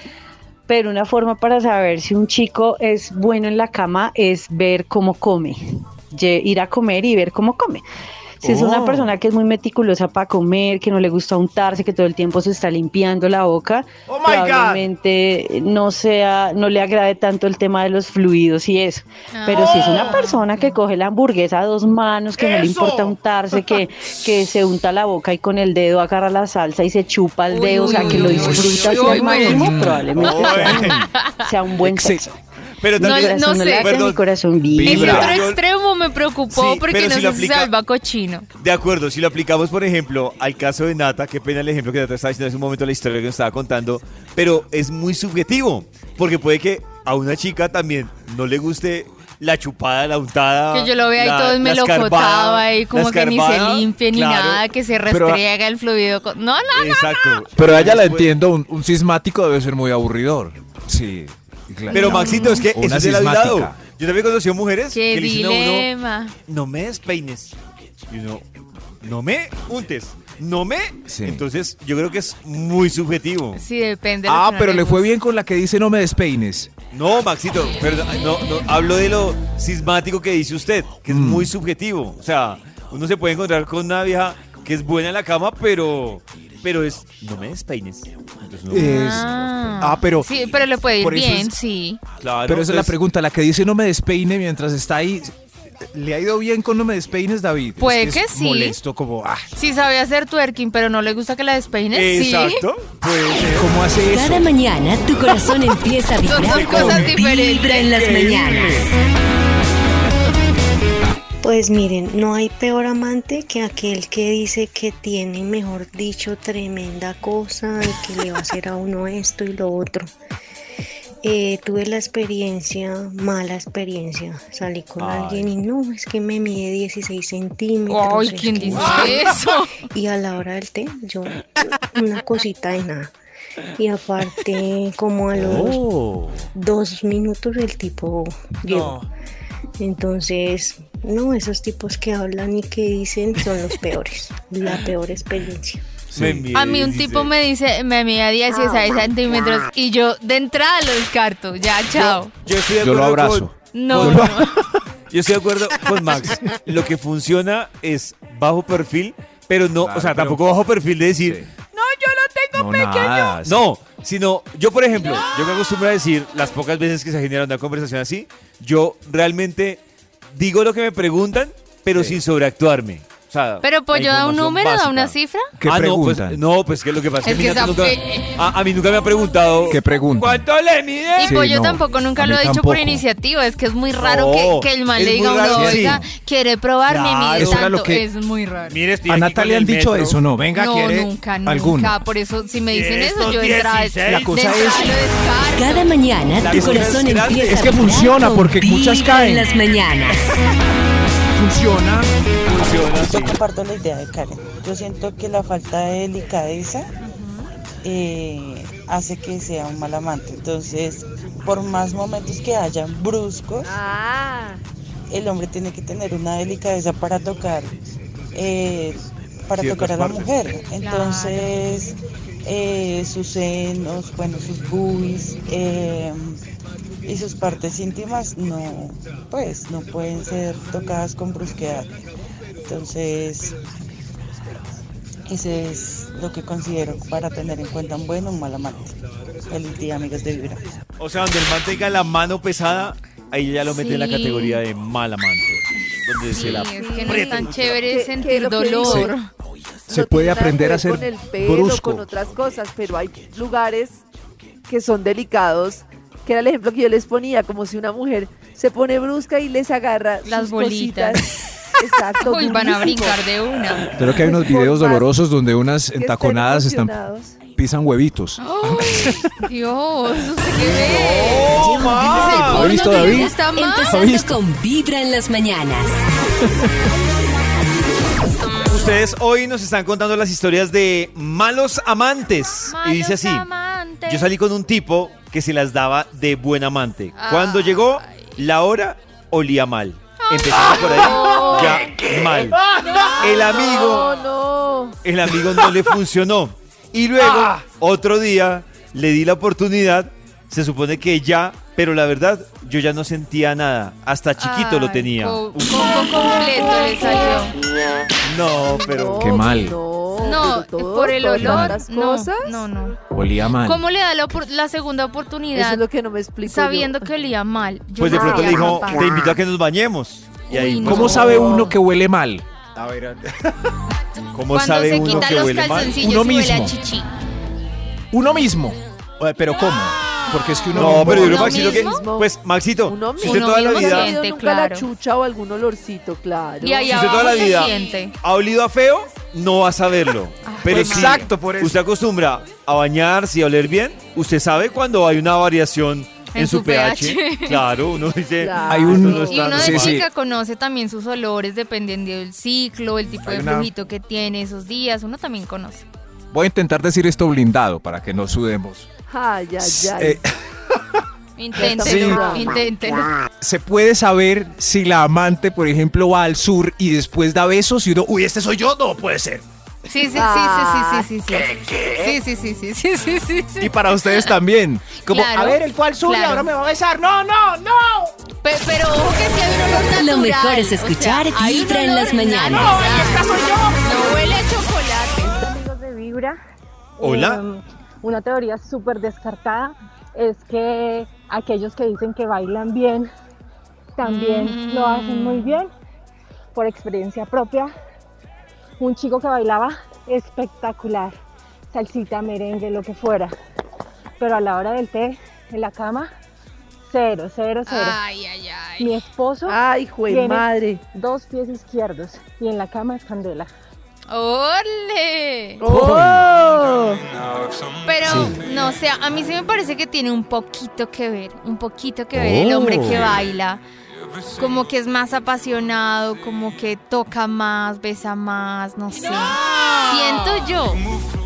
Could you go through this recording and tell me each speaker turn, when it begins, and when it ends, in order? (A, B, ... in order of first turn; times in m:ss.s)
0:00.7-0:07.8 A
0:08.4-0:32.4 A
0:08.4-0:09.1 B
0:14.1-0:14.8 B
0:19.3-0:20.8 C
0:22.5-0:23.1 B
0:27.5-0:29.6 C
0:27.8-0:31.0 B
0:30.2-0:31.0 D
0:31.1-0:31.5 C
0:31.8-0:32.2 B
0:32.8-0:35.6 D
0:33.0-0:35.2 A
0:33.0-0:34.0 C
0:34.7-0:35.4 B
0:35.2-0:38.5 C
0:36.5-0:37.7 D
0:38.6-0:54.6 D
0:50.7-0:57.4 C
0:55.1-0:55.4 B
0:56.7-0:58.3 D
0:57.6-1:03.8 B
1:01.9-1:02.6 C
1:01.9-1:05.9 D
1:04.9-1:06.4 C
1:06.5-1:07.5 D
1:08.1-1:08.4 D
1:09.0-1:13.6 D
1:11.1-1:11.4 B
1:13.5-1:15.1 C
1:14.3-1:16.7 B
1:16.9-1:29.8 D
1:21.1-1:21.5 B
1:28.7-1:30.3 B
1:28.8-1:32.0 C
1:31.0-1:31.5 B
1:32.2-1:33.0 D
1:32.5-1:39.5 B
1:37.8-1:38.8 C
1:39.5-1:42.7 C
1:41.9-1:43.7 D
1:43.5-1:44.5 B
1:44.1-1:48.9 E
1:46.2-1:48.0 C
1:46.4-1:47.2 D
1:47.9-1:48.9 D
1:51.4-2:00.1 F
2:01.2-2:09.4 F
2:05.0-2:05.6 B
2:07.9-2:09.8 C
2:09.9-2:13.1 F
2:13.8-2:15.9 F
2:15.3-2:16.3 D
2:16.6-2:19.1 F
2:19.8-2:25.9 F
2:26.1-2:26.5 B
2:26.1-2:27.3 D
2:26.5-2:32.3 C
2:31.9-2:34.3 D
2:32.8-2:34.7 B
2:33.7-2:34.5 C
2:35.1-2:41.4 D
2:39.8-2:40.4 B
2:41.2-2:41.5 B
2:42.5-2:43.7 B
2:43.4-3:01.4 D
2:51.9-2:52.2 B
2:53.6-2:55.5 C
2:55.6-2:56.4 B
2:57.2-2:58.4 C
2:59.7-3:00.5 B
3:01.2-3:03.1 B
3:01.2-3:08.8 C
3:04.0-3:06.0 D
3:05.5-3:06.0 B
3:06.9-3:07.7 D
3:07.2-3:08.0 B
3:08.7-3:10.2 D
3:09.1-3:11.9 B
3:10.5-3:15.9 C
3:12.7-3:14.3 D
3:14.0-3:14.9 B
3:15.5-3:20.2 E
3:16.4-3:17.8 D
3:17.4-3:19.5 B
3:21.4-3:22.1 B
3:22.5-3:23.4 D
3:22.6-3:26.9 G
3:27.0-3:27.5 C
3:27.8-3:33.8 G
3:33.6-3:34.6 H
3:35.1-3:37.7 G
3:38.3-3:46.4 G
3:39.6-3:40.3 D
3:40.8-3:41.5 C
3:47.0-3:51.9 G
3:52.6-3:53.6 G
3:55.3-4:00.6 G
4:01.0-4:07.9 D
4:03.7-4:04.6 C
4:06.3-4:09.3 C
4:06.7-4:09.1 H
4:09.9-4:14.0 H
4:09.9-4:12.1 B
4:14.7-4:21.2 H
4:20.2-4:23.8 C
4:21.8-4:23.2 H
4:23.9-4:27.0 B
4:24.0-4:25.1 H
4:26.0-4:27.3 H
4:27.6-4:29.3 B
4:28.4-4:31.6 C
4:30.6-4:32.9 D
4:31.6-4:36.0 E
4:32.4-4:34.3 B
4:32.7-4:34.2 C
4:38.3-4:38.9 C
4:38.6-4:43.5 D
4:42.7-4:44.3 C
4:44.1-4:52.6 D
4:47.2-4:48.4 C
4:50.2-4:51.5 C
4:51.0-4:51.9 H
4:52.9-4:53.2 C
4:53.0-4:55.0 H
4:53.2-4:54.1 D
4:55.0-5:05.8 D
5:04.4-5:07.6 C
5:08.2-5:09.4 D
5:08.6-5:12.7 H
5:09.2-5:09.8 B
5:10.2-5:13.0 C
5:11.4-5:11.8 B
5:13.1-5:13.8 B
5:13.6-5:15.8 C
5:15.5-5:17.1 H
5:16.5-5:19.0 C
5:18.0-5:21.7 D
5:18.0-5:19.0 H
5:20.5-5:21.4 C
5:20.8-5:23.4 B
5:24.3-5:26.0 D
5:24.5-5:27.1 C
5:26.0-5:26.8 B
5:28.1-5:31.4 B
5:30.7-5:32.3 H
5:30.7-5:34.2 D
5:31.3-5:32.1 C
5:32.8-5:37.7 H
5:33.2-5:34.9 C
5:36.6-5:38.2 C
5:36.8-5:49.8 D
5:40.4-5:41.2 C
5:40.7-5:41.8 B
5:46.3-5:47.7 C
5:48.4-5:49.9 H
5:48.7-5:50.1 B
5:49.2-5:55.9 C
5:53.2-5:53.7 B
5:56.3-5:58.9 B
5:59.1-6:00.2 H
5:59.6-6:00.3 B
6:01.4-6:03.1 C
6:01.6-6:02.6 H
6:01.7-6:02.3 B
6:03.4-6:09.4 B
6:09.9-6:14.4 C
6:10.1-6:11.1 H
6:13.6-6:18.1 B
6:15.0-6:16.5 C
6:18.4-6:25.4 C
6:19.9-6:22.7 E
6:22.6-6:23.8 B
6:25.3-6:26.4 I
6:27.0-6:33.1 I
6:27.0-6:27.4 D
6:34.0-6:35.7 I
6:34.0-6:35.6 C
6:36.6-6:37.7 I
6:38.8-6:41.1 I
6:41.7-6:43.3 I
6:44.2-6:46.1 I
6:46.9-6:48.0 I
6:47.6-6:49.0 C
6:48.8-6:53.5 I
6:49.5-6:50.8 H
6:54.1-6:55.6 C
6:55.6-6:57.0 H
6:55.7-6:56.3 B
6:57.8-7:03.6 C
6:58.0-6:58.4 B
7:02.2-7:03.2 B
7:04.3-7:10.8 C